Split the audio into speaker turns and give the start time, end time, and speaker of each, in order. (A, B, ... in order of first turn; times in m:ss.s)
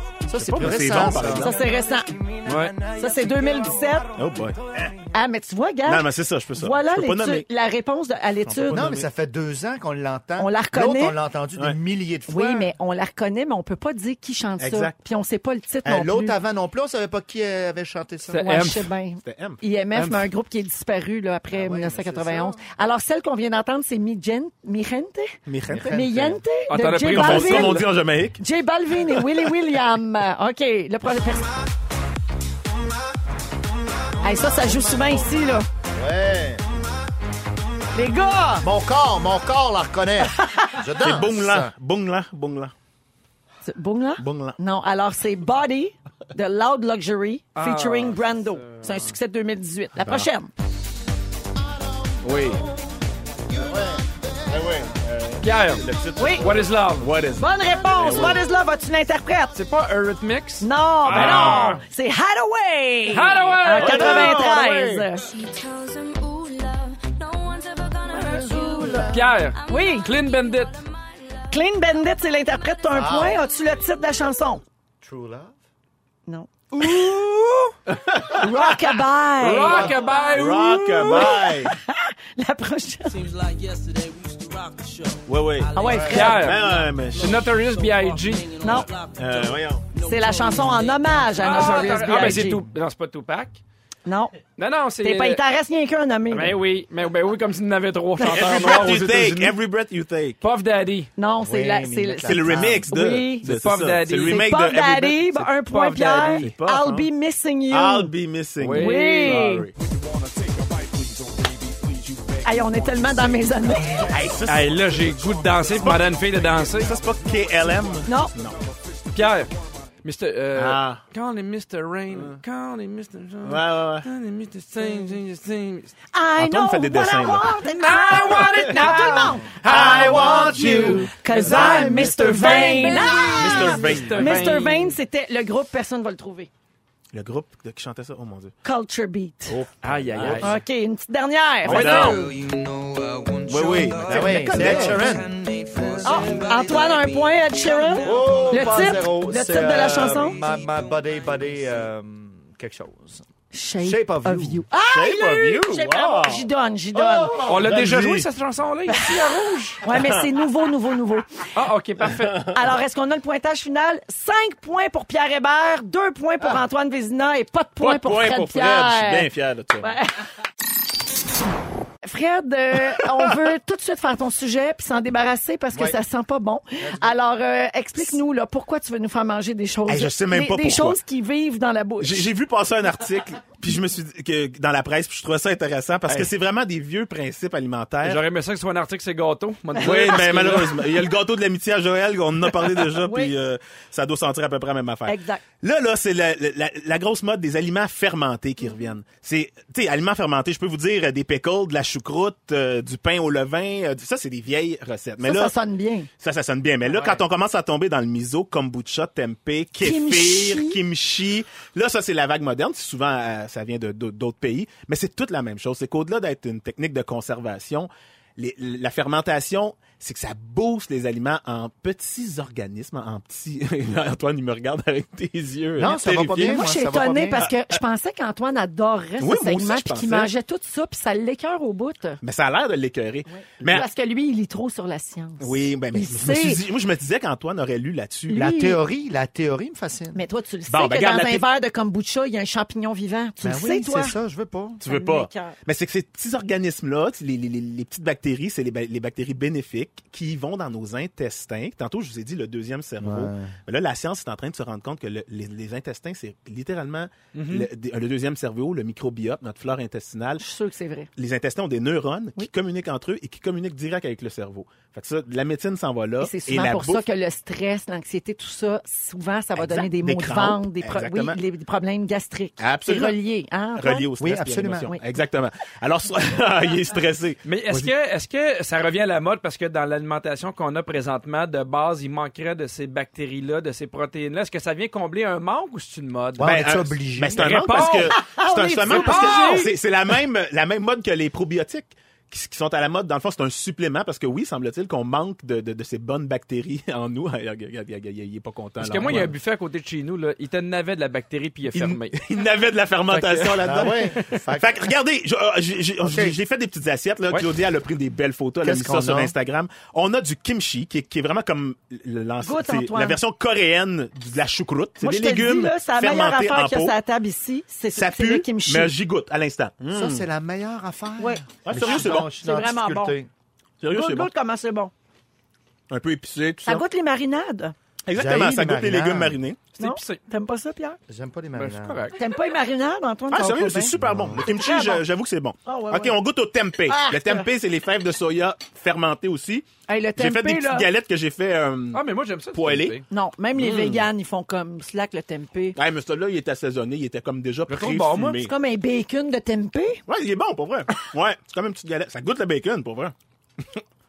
0:00.2-0:01.5 A
0:00.3-0:01.6 B
0:01.2-0:02.2 C
0:02.4-0:02.8 D
0:02.5-0:03.6 E
0:02.8-0:04.2 C
0:04.2-0:04.9 B
0:05.1-0:08.8 C
0:05.8-0:07.4 B
0:08.4-0:09.1 B
0:08.7-0:12.7 A
0:10.4-0:11.2 C
0:12.3-0:16.4 C
0:14.6-0:14.9 B
0:15.8-0:18.4 A
0:18.2-0:18.9 D
0:18.4-0:25.4 C
0:19.2-0:19.6 B
0:19.9-0:20.3 D
0:21.5-0:22.6 A
0:25.5-0:26.1 B
0:25.7-0:26.4 A
0:25.9-0:27.9 C
0:26.7-0:27.9 D
0:27.0-0:28.4 B
0:28.4-0:31.6 C
0:34.2-0:35.7 C
0:35.9-0:36.7 A
0:37.9-0:38.7 C
0:38.6-0:41.7 A
0:40.9-0:42.7 B
0:43.6-0:50.5 C
0:44.2-0:44.6 B
0:47.6-0:49.1 D
0:50.0-0:50.3 B
0:52.2-0:52.6 B
0:53.5-0:54.7 A
0:53.6-0:53.9 B
0:54.5-0:58.4 B
0:55.4-0:57.1 D
0:56.2-0:56.5 C
0:57.4-0:59.6 C
0:59.5-1:01.8 D
1:00.6-1:05.3 C
1:01.1-1:01.8 B
1:03.1-1:04.5 D
1:03.8-1:05.1 B
1:05.2-1:11.6 F
1:08.1-1:09.2 A
1:08.1-1:09.1 C
1:09.1-1:10.8 D
1:09.7-1:10.1 C
1:11.5-1:14.6 C
1:12.9-1:13.4 A
1:15.0-1:15.5 A
1:16.3-1:17.8 C
1:17.9-1:19.0 B
1:18.3-1:20.0 C
1:19.4-1:21.4 D
1:19.7-1:20.0 A
1:19.7-1:21.7 B
1:21.0-1:23.2 C
1:23.0-1:32.3 E
1:25.2-1:27.5 B
1:25.7-1:26.5 C
1:25.8-1:26.2 A
1:26.1-1:28.6 D
1:28.6-1:28.9 C
1:29.1-1:29.9 B
1:30.0-1:32.6 C
1:31.3-1:33.6 D
1:34.0-1:34.3 C
1:34.6-1:35.4 D
1:35.0-1:36.6 C
1:36.3-1:39.6 D
1:38.2-1:38.8 C
1:38.2-1:40.4 B
1:40.4-1:41.1 D
1:41.2-1:43.5 C
1:41.4-1:43.0 A
1:42.2-1:45.5 B
1:43.4-1:44.5 D
1:44.2-1:48.1 C
1:45.5-1:46.5 D
1:46.3-1:47.1 B
1:47.7-1:52.4 B
1:48.6-1:49.6 D
1:48.7-1:49.7 C
1:52.4-1:54.2 C
1:54.0-1:58.7 B
1:54.4-1:57.0 D
1:58.0-1:58.3 C
1:59.1-2:05.9 D
2:00.5-2:01.0 B
2:02.1-2:02.4 B
2:03.4-2:04.1 B
2:06.1-2:16.5 C
2:06.4-2:07.6 B
2:07.6-2:14.9 D
2:09.6-2:12.7 B
2:09.7-2:10.7 A
2:10.1-2:10.4 E
2:12.5-2:12.9 E
2:13.3-2:14.6 B
2:17.1-2:18.5 B
2:18.6-2:19.6 C
2:19.5-2:20.6 B
2:19.8-2:20.6 D
2:20.4-2:22.2 C
2:21.6-2:22.3 B
2:21.7-2:31.8 E
2:23.5-2:25.2 B
2:24.0-2:26.3 A
2:26.0-2:30.4 C
2:28.0-2:33.2 A
2:33.5-2:37.4 C
2:33.8-2:34.6 A
2:34.8-2:36.5 B
2:37.0-2:38.3 B
2:37.4-2:39.7 D
2:38.9-2:41.5 C
2:39.3-2:40.2 B
2:41.5-2:42.5 D
2:42.1-2:42.6 B
2:42.4-2:50.1 C
2:47.8-2:50.0 B
2:52.0-3:02.3 C
2:59.9-3:01.0 B
3:02.0-3:08.2 B
3:06.0-3:06.3 D
3:08.0-3:11.0 D
3:09.8-3:25.5 B
3:12.9-3:13.4 C
3:15.0-3:15.4 C
3:25.2-3:26.1 C
3:26.2-3:46.6 B
3:26.8-3:27.2 D
3:29.8-3:30.8 C
3:45.8-3:47.4 A
3:46.3-3:52.2 C
3:49.2-3:50.3 B
3:52.2-3:53.9 B
3:53.3-3:56.6 C
3:55.4-3:58.5 B
3:58.3-3:58.8 C
3:58.3-4:00.2 A
4:00.1-4:04.2 C
4:00.7-4:01.4 B
4:03.4-4:04.8 A
4:04.8-4:20.4 B
4:04.8-4:05.6 C
4:13.0-4:13.6 A
4:17.3-4:17.7 D
4:20.4-4:21.1 C
4:21.2-4:27.0 B
4:26.2-4:34.1 C
4:29.6-4:31.4 B
4:32.6-4:33.2 B
4:33.8-4:37.9 B
4:34.2-4:35.0 A
4:37.4-4:46.6 D
4:46.4-4:47.8 A
4:46.4-4:59.3 B
4:47.3-4:49.7 D
4:48.1-4:49.7 C
4:58.8-5:02.2 D
5:01.7-5:16.9 B
5:03.1-5:03.6 D
5:03.6-5:04.9 A
5:06.0-5:06.4 A
5:07.3-5:07.6 D
5:08.6-5:09.3 A
5:12.4-5:13.2 C
5:15.0-5:18.9 C
5:17.9-5:20.2 B
5:19.9-5:23.3 A
5:21.2-5:23.2 C
5:21.6-5:22.3 B
5:23.8-5:24.3 B
5:23.9-5:24.9 C
5:25.9-5:26.8 B
5:26.6-5:27.7 C
5:28.0-5:29.6 B
5:28.1-5:29.4 A
5:29.7-5:30.2 D
5:29.8-5:31.0 C
5:31.1-5:32.1 A
5:31.5-5:32.2 D
5:32.1-5:33.9 C
5:33.3-5:42.0 B
5:34.0-5:34.5 A
5:34.5-5:35.0 C
5:35.6-5:36.2 C
5:36.9-5:37.5 C
5:39.9-5:40.9 C
5:41.9-5:43.0 D
5:42.5-5:43.0 B
5:43.1-5:45.8 C
5:43.6-5:44.1 B
5:45.7-5:48.5 B
5:47.7-5:48.4 D
5:48.4-5:50.0 C
5:50.1-5:53.8 B